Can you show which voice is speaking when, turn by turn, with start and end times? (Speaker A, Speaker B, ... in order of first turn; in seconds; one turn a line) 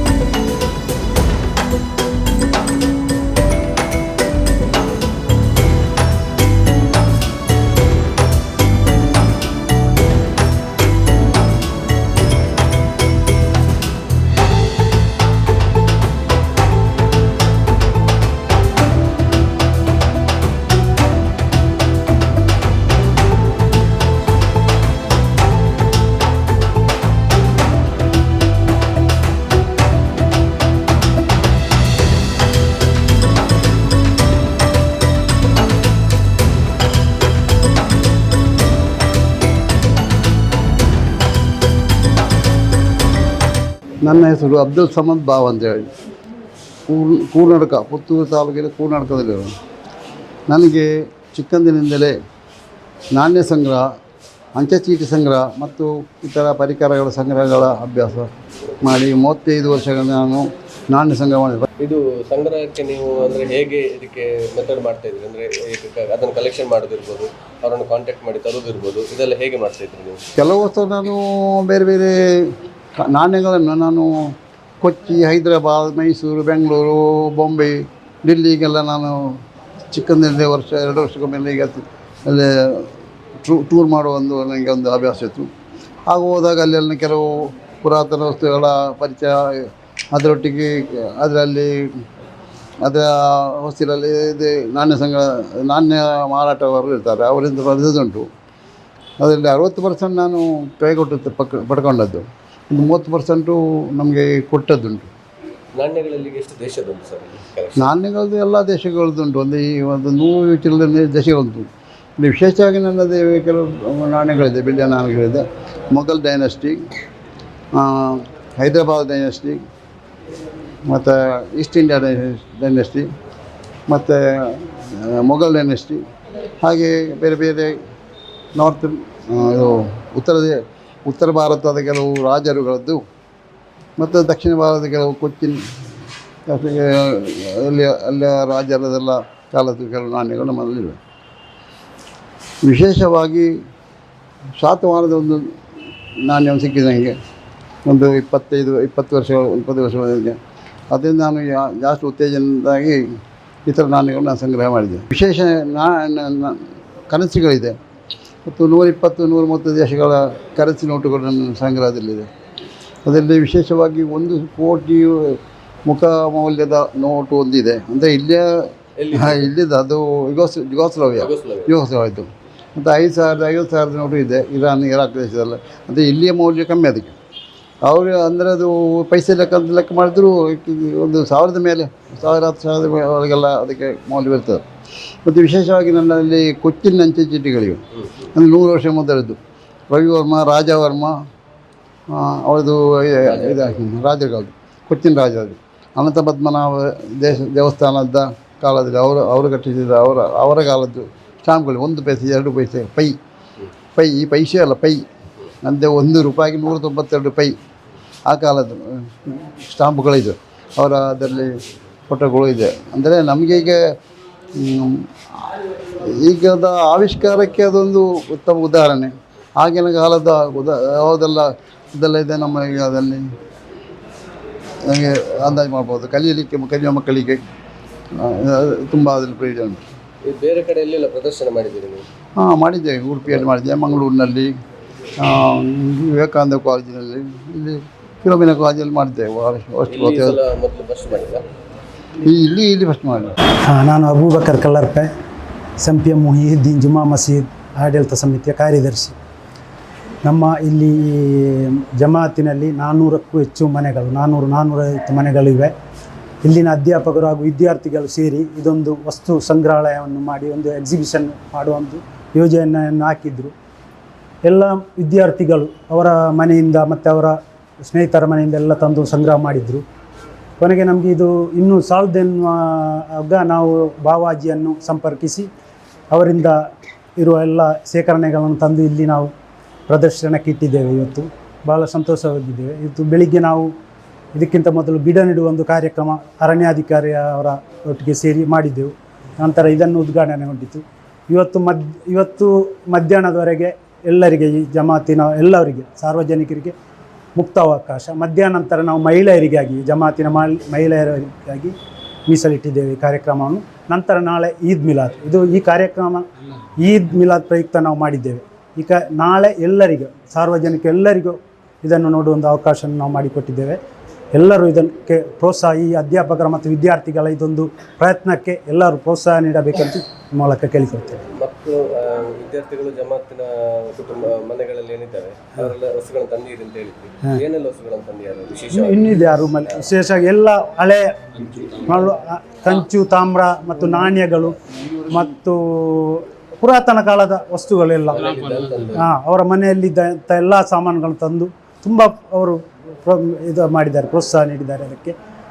Speaker A: 44.0-45.9
Speaker A: 46.9-49.5
Speaker A: 50.5-52.1
Speaker A: 53.1-53.9
Speaker A: 54.6-58.3
Speaker A: 58.8-61.6
Speaker B: 61.8-70.2
Speaker A: 70.4-79.3
Speaker A: 79.9-82.9
Speaker A: 83.4-85.5
Speaker A: 86.1-91.9
Speaker A: 92.8-98.3
Speaker A: 99.2-105.1
Speaker B: 105.8-107.9
Speaker A: 107.8-111.7
Speaker A: 112.2-116.8
Speaker A: 117.7-119.6
Speaker A: 120.9-123.1
Speaker A: 123.9-126.0
Speaker A: 126.6-127.8
Speaker A: 128.6-133.0
Speaker A: 134.0-135.6
Speaker A: 136.5-141.0
Speaker A: 142.6-143.5
Speaker A: 144.6-145.5
Speaker A: 146.2-147.2
Speaker A: 147.8-150.4
Speaker A: 150.9-153.0
Speaker A: 153.7-157.8
Speaker A: 158.4-162.3
Speaker A: 163.1-177.2
Speaker B: 169.0-169.5
Speaker B: 171.2-171.7
Speaker A: 177.8-184.6
Speaker A: 185.2-187.8
Speaker A: 188.3-189.4
Speaker A: 189.9-191.1
Speaker A: 192.1-203.2
Speaker B: 193.2-193.7
Speaker A: 203.9-205.0
Speaker A: 205.6-207.5
Speaker A: 208.3-213.8
Speaker A: 214.6-215.5
Speaker A: 216.1-223.3
Speaker A: 224.8-227.4
Speaker A: 228.1-229.8
Speaker B: 230.2-232.0
Speaker A: 232.4-234.5
Speaker A: 235.2-240.4
Speaker B: 239.9-241.4
Speaker A: 242.2-243.3
Speaker C: 243.7-245.1
Speaker C: 245.8-249.2
Speaker C: 250.2-255.7
Speaker C: 256.4-263.5
Speaker C: 264.4-269.8
Speaker C: 270.6-275.5
Speaker C: 276.1-279.3
Speaker C: 279.9-283.7
Speaker C: 284.3-296.7
Speaker C: 297.4-301.7
Speaker C: 302.3-306.2
Speaker C: 306.8-313.8
Speaker C: 314.3-321.2
Speaker B: 321.3-329.8
Speaker C: 328.7-331.1
Speaker C: 331.8-334.6
Speaker C: 335.1-338.3
Speaker B: 338.1-339.1
Speaker C: 338.9-345.1